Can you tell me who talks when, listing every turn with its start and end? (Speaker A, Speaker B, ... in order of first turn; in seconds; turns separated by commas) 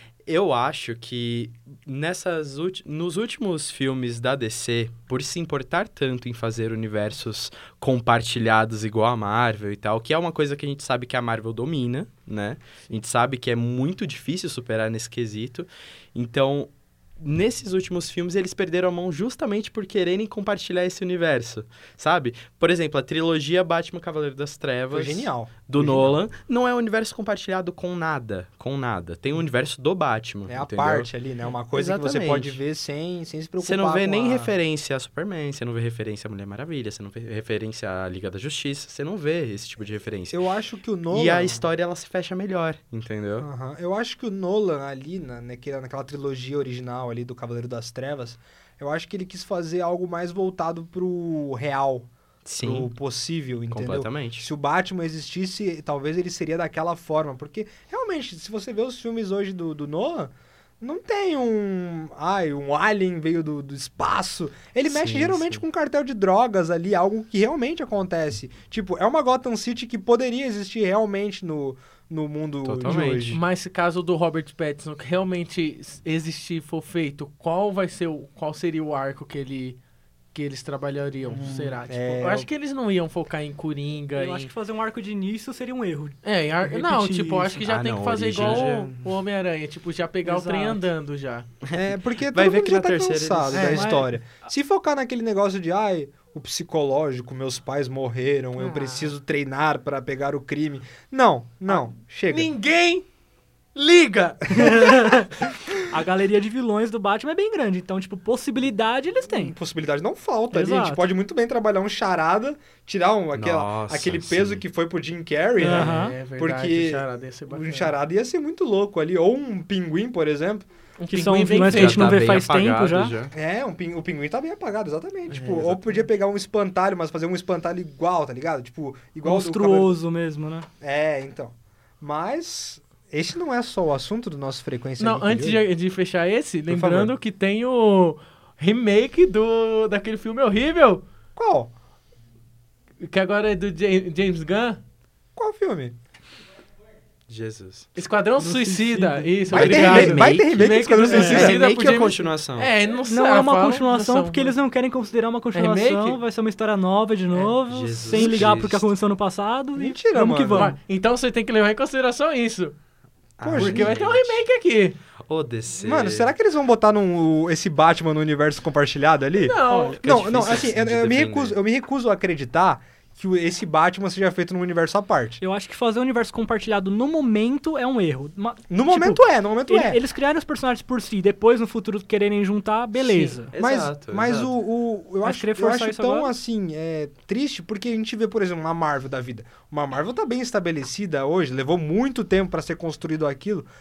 Speaker A: 0.2-31.1, Speaker B: 24.9-26.2, Speaker B: 30.5-34.5, Speaker A: 31.7-32.6, Speaker A: 33.6-40.4, Speaker B: 40.3-41.6, Speaker A: 41.1-43.5, Speaker B: 43.4-73.4, Speaker A: 52.4-52.9, Speaker A: 53.7-54.5, Speaker A: 64.8-65.6, Speaker A: 72.6-73.4, Speaker C: 72.8-79.8, Speaker C: 80.3-84.5, Speaker B: 81.3-82.5, Speaker D: 84.1-87.6, Speaker C: 86.2-91.5, Speaker A: 87.6-89.1, Speaker D: 90.2-90.8, Speaker A: 91.6-93.9, Speaker B: 91.7-102.5, Speaker C: 93.5-93.9, Speaker D: 93.7-94.1, Speaker C: 98.6-99.1, Speaker C: 101.7-103.0, Speaker C: 103.7-104.5, Speaker D: 104.5-109.5, Speaker B: 104.6-105.0, Speaker B: 109.3-120.7, Speaker D: 110.5-111.0, Speaker A: 113.3-114.6, Speaker D: 115.6-116.1, Speaker C: 115.7-117.9, Speaker C: 121.0-122.2, Speaker D: 121.1-123.1, Speaker A: 121.7-123.3, Speaker B: 123.3-129.9, Speaker C: 125.3-126.0, Speaker D: 129.2-130.7, Speaker B: 130.8-135.6, Speaker C: 135.0-141.0, Speaker B: 136.7-137.1, Speaker B: 141.3-141.7, Speaker C: 143.0-144.8, Speaker B: 145.3-146.0, Speaker A: 147.3-147.9, Speaker C: 147.9-154.5, Speaker D: 148.4-150.4, Speaker B: 149.5-151.6, Speaker A: 149.6-152.7, Speaker D: 153.0-160.8, Speaker C: 155.5-156.2, Speaker A: 157.7-158.9, Speaker B: 158.1-158.5, Speaker B: 159.7-160.7, Speaker C: 160.5-162.8, Speaker A: 163.4-164.4, Speaker B: 163.4-163.9, Speaker C: 163.5-165.0, Speaker A: 165.3-166.3, Speaker B: 165.8-175.4, Speaker C: 169.4-170.0, Speaker D: 169.7-170.0, Speaker A: 170.0-171.6, Speaker D: 175.4-183.5, Speaker B: 178.7-180.0, Speaker C: 183.0-183.4, Speaker A: 183.5-184.5, Speaker B: 183.6-193.7, Speaker D: 185.2-186.3